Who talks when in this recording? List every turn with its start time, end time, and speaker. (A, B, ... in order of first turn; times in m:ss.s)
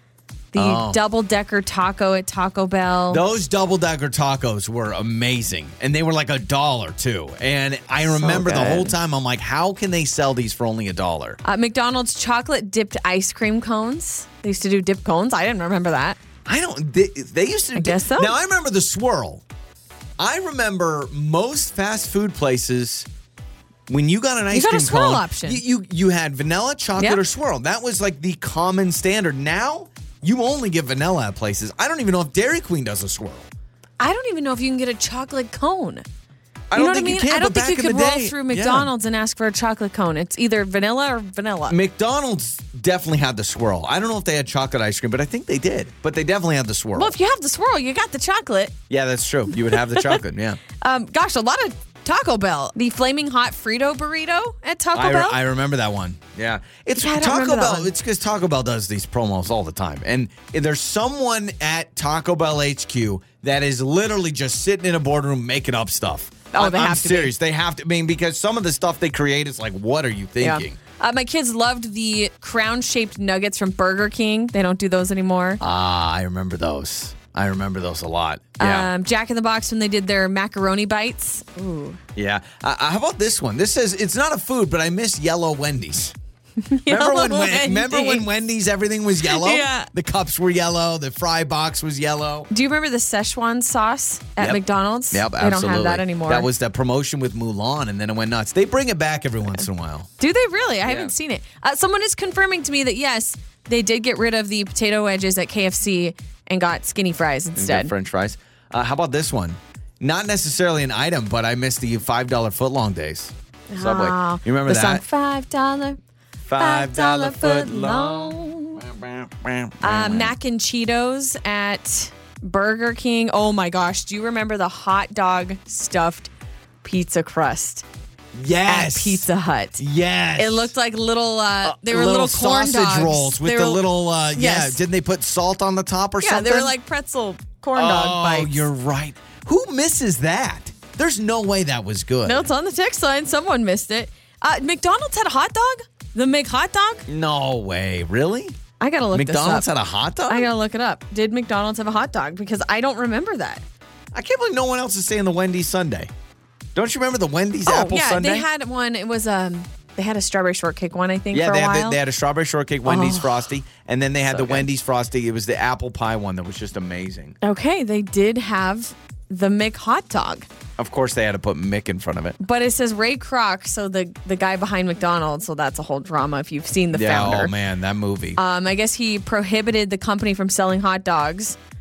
0:00.5-0:03.2 A
0:00.5-0:01.0 B
0:03.1-0:11.4 B
0:08.1-0:08.9 A
0:11.4-0:16.2 A
0:16.4-0:19.4 B
0:17.7-0:18.3 A
0:20.2-0:23.1 B
0:23.9-0:33.5 B
0:24.5-0:25.6 A
0:34.0-0:36.0 A
0:36.7-0:38.9 B
0:36.7-0:41.8 A
0:41.7-0:47.1 B
0:47.0-0:48.7 A
0:48.9-0:50.6 B
0:50.8-0:55.4 A
0:54.9-1:10.8 B
0:57.0-0:57.9 A
1:06.5-1:07.3 A
1:10.4-1:15.6 A
1:15.6-1:18.9 B
1:18.6-1:22.0 A
1:22.2-1:26.1 B
1:26.6-1:28.2 A
1:26.8-1:32.5 B
1:29.2-1:29.9 A
1:32.5-1:36.5 A
1:34.4-1:40.1 B
1:40.2-1:47.9 A
1:40.8-1:41.1 B
1:47.6-1:55.0 B
1:53.7-1:56.0 A
1:56.5-2:00.4 B
1:56.6-1:58.8 A
1:59.8-2:06.3 A
2:06.8-2:07.8 A
2:08.3-2:09.2 B
2:08.6-2:09.8 A
2:09.8-2:10.7 B
2:10.4-2:13.8 A
2:11.6-2:16.7 B
2:14.3-2:14.8 A
2:16.2-2:18.7 A
2:17.7-2:22.5 B
2:22.2-2:27.0 A
2:27.1-2:28.6 B
2:28.8-2:29.7 A
2:29.1-2:30.5 B
2:30.3-2:33.6 A
2:34.1-2:36.1 B
2:36.7-2:38.5 B
2:37.6-2:42.0 A
2:41.3-2:47.4 B
2:42.8-2:43.4 A
2:44.3-2:44.6 A
2:47.4-2:50.4 A
2:50.8-2:52.4 B
2:52.4-2:57.5 A
2:56.9-2:58.4 B
2:58.4-3:01.6 A